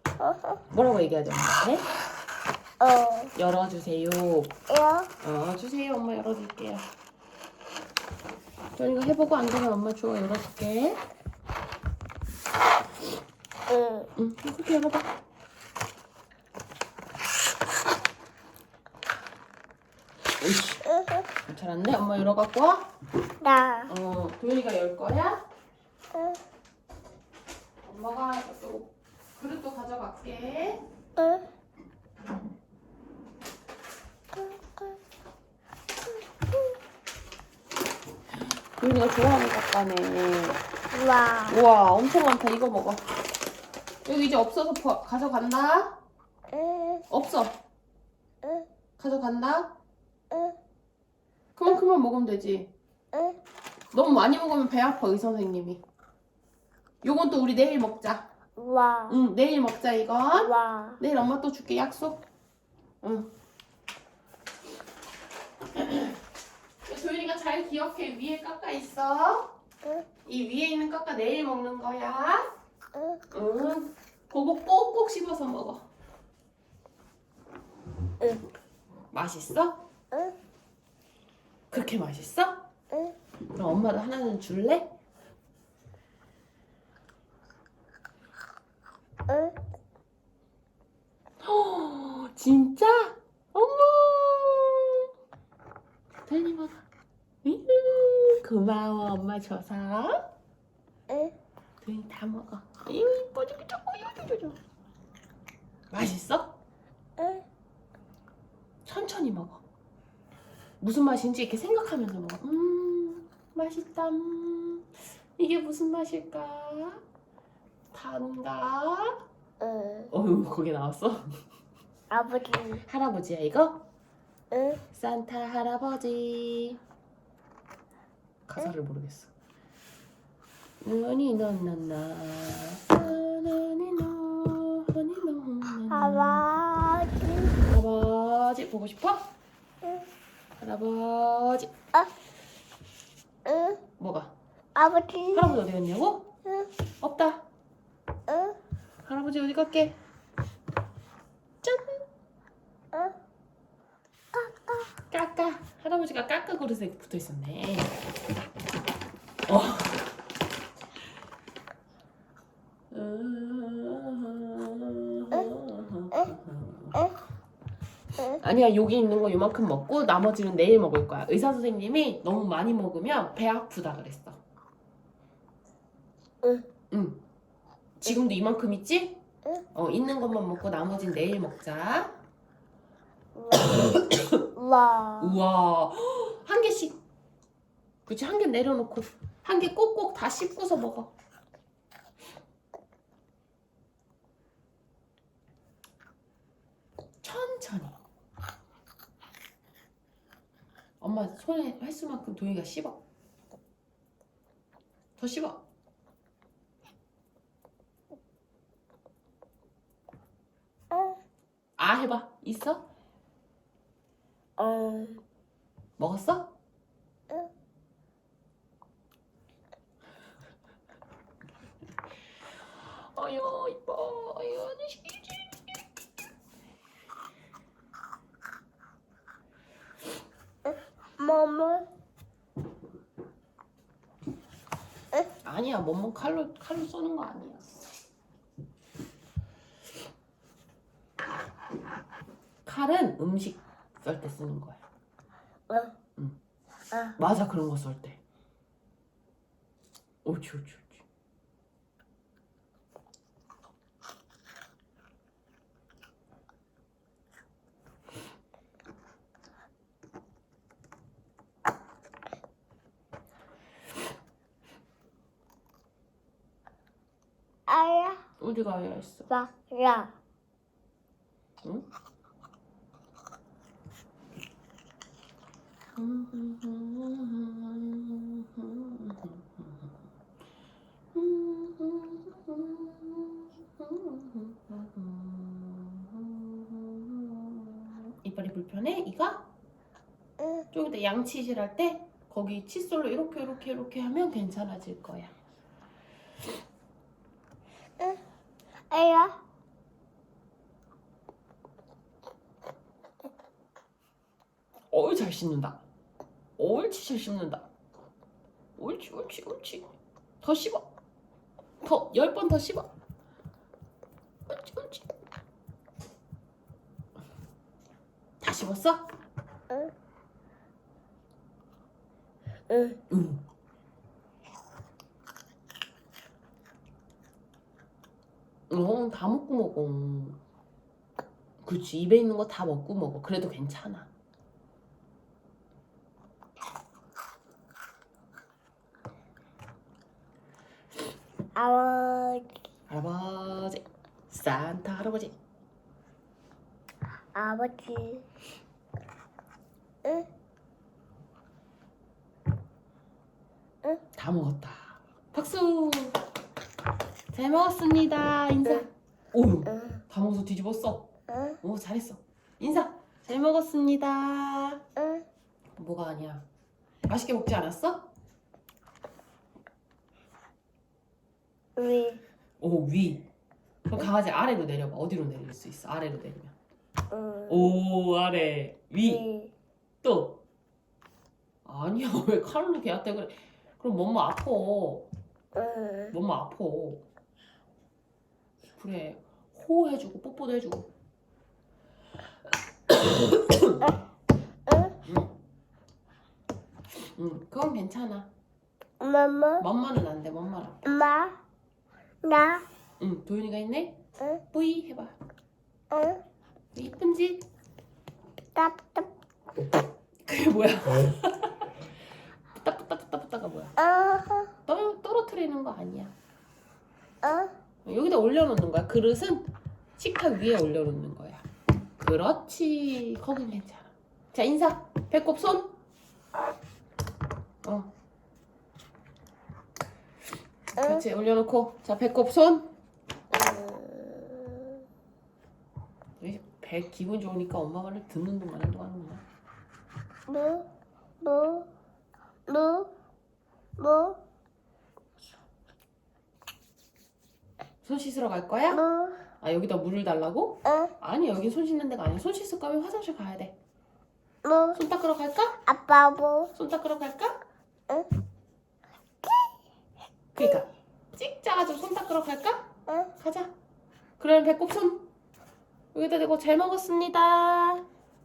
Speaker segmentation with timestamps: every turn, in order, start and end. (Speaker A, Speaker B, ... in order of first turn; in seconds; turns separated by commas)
Speaker A: 0.2-0.6, Speaker B: 0.7-1.9, Speaker A: 2.8-3.3, Speaker B: 3.3-4.5, Speaker A: 4.7-5.1, Speaker B: 5.2-6.9, Speaker B: 8.7-11.0, Speaker A: 13.7-14.1, Speaker B: 14.2-15.1, Speaker B: 20.4-20.8, Speaker A: 20.9-21.2, Speaker B: 21.5-22.9, Speaker A: 23.4-23.9, Speaker B: 23.9-25.4, Speaker A: 26.1-26.4, Speaker B: 27.8-30.8, Speaker A: 31.2-31.4, Speaker B: 38.8-40.6, Speaker A: 40.9-41.6, Speaker B: 41.5-43.0, Speaker B: 44.0-46.0, Speaker A: 46.5-47.0, Speaker B: 47.1-47.6, Speaker B: 49.0-49.7, Speaker B: 51.5-52.7, Speaker A: 53.1-53.4, Speaker B: 53.9-55.8, Speaker B: 57.0-58.3, Speaker A: 58.6-59.2, Speaker B: 59.1-62.2, Speaker A: 60.4-61.0, Speaker B: 63.0-63.3, Speaker B: 65.8-66.1, Speaker B: 66.8-69.5, Speaker B: 70.2-72.5, Speaker A: 72.9-73.2, Speaker B: 73.3-75.9, Speaker A: 78.2-78.4, Speaker B: 79.1-79.8, Speaker B: 81.7-82.7, Speaker B: 83.5-84.9, Speaker A: 89.3-89.5, Speaker B: 91.4-95.1, Speaker B: 96.2-96.8, Speaker B: 97.4-100.2, Speaker A: 101.1-101.3, Speaker B: 101.8-104.6, Speaker B: 105.9-106.6, Speaker A: 107.2-107.4, Speaker B: 108.8-109.6, Speaker B: 110.8-117.0, Speaker B: 117.9-119.2, Speaker A: 119.6-120.1, Speaker B: 120.1-121.3, Speaker A: 122.1-122.8, Speaker B: 122.8-123.8, Speaker A: 124.5-124.8, Speaker B: 124.9-126.8, Speaker B: 128.5-129.3, Speaker B: 130.8-136.4, Speaker A: 135.9-137.5, Speaker B: 137.6-139.3, Speaker B: 140.6-141.7, Speaker A: 143.4-143.8, Speaker B: 144.0-144.3, Speaker A: 144.7-145.5, Speaker B: 145.3-146.3, Speaker B: 147.0-147.4, Speaker A: 148.3-148.6, Speaker B: 149.0-150.0, Speaker B: 151.6-152.0, Speaker A: 154.3-154.9, Speaker B: 155.1-157.9, Speaker B: 159.5-160.1, Speaker B: 162.9-167.0, Speaker B: 168.3-174.4, Speaker B: 176.9-177.2, Speaker B: 178.0-179.2, Speaker B: 179.7-182.2, Speaker A: 183.3-183.9, Speaker B: 183.6-184.5, Speaker A: 184.5-185.4, Speaker B: 185.2-187.0, Speaker B: 188.1-191.1, Speaker B: 197.2-198.0, Speaker B: 201.0-203.0, Speaker B: 205.2-205.6, Speaker B: 211.8-212.8, Speaker A: 214.6-215.2, Speaker B: 216.0-216.5, Speaker B: 222.8-225.6, Speaker A: 230.7-231.9, Speaker B: 235.4-237.9, Speaker B: 242.6-244.8, Speaker A: 245.7-245.9, Speaker B: 247.2-248.2, Speaker B: 250.2-251.0, Speaker A: 267.7-268.2, Speaker B: 268.4-269.3, Speaker A: 269.3-270.1, Speaker B: 275.9-279.9, Speaker B: 281.1-289.5, Speaker B: 290.7-295.3, Speaker A: 298.9-299.4, Speaker B: 304.9-305.8, Speaker B: 306.6-307.7, Speaker B: 308.8-310.9, Speaker B: 311.8-312.9, Speaker B: 314.5-315.1, Speaker B: 318.4-319.1, Speaker A: 322.7-323.0, Speaker B: 323.1-323.4, Speaker B: 328.7-330.4, Speaker B: 331.6-334.1, Speaker A: 341.6-342.6, Speaker B: 342.9-345.3, Speaker A: 347.3-348.2, Speaker A: 350.0-350.3, Speaker B: 354.1-356.2, Speaker B: 357.3-361.1, Speaker A: 359.7-360.0, Speaker B: 361.6-364.8, Speaker A: 365.0-365.2, Speaker B: 365.8-366.4, Speaker B: 367.0-368.1, Speaker A: 371.8-372.2, Speaker B: 372.6-373.3, Speaker B: 373.8-376.5, Speaker A: 377.1-377.7, Speaker B: 377.5-379.2, Speaker A: 379.0-379.5, Speaker B: 380.0-380.4, Speaker B: 381.6-385.1, Speaker A: 385.5-386.1, Speaker B: 386.1-387.0, Speaker B: 388.8-390.9, Speaker B: 392.9-393.8, Speaker B: 395.0-395.3, Speaker B: 397.1-398.3, Speaker A: 399.0-399.6, Speaker B: 399.6-400.9, Speaker A: 400.8-401.4, Speaker A: 402.2-402.6, Speaker B: 403.0-404.0, Speaker B: 404.5-405.1, Speaker A: 405.9-406.2, Speaker B: 406.7-407.4, Speaker A: 408.5-409.1, Speaker B: 410.3-411.8, Speaker B: 412.5-413.7, Speaker A: 413.8-414.5, Speaker B: 414.7-416.1, Speaker A: 417.2-417.5, Speaker B: 417.8-421.4, Speaker B: 422.0-425.7, Speaker B: 427.6-427.9, Speaker A: 430.8-431.0, Speaker B: 430.8-432.7, Speaker A: 433.3-434.8, Speaker B: 436.2-439.2, Speaker A: 440.3-440.7, Speaker A: 441.2-441.7, Speaker A: 442.5-442.9, Speaker A: 443.8-444.2, Speaker B: 447.8-448.8, Speaker A: 448.7-449.2, Speaker B: 449.4-453.6, Speaker A: 450.6-450.9, Speaker A: 454.4-454.8, Speaker B: 454.7-455.6, Speaker A: 455.6-456.5, Speaker B: 456.5-457.4, Speaker B: 460.3-463.5, Speaker B: 464.2-465.1, Speaker B: 465.9-467.9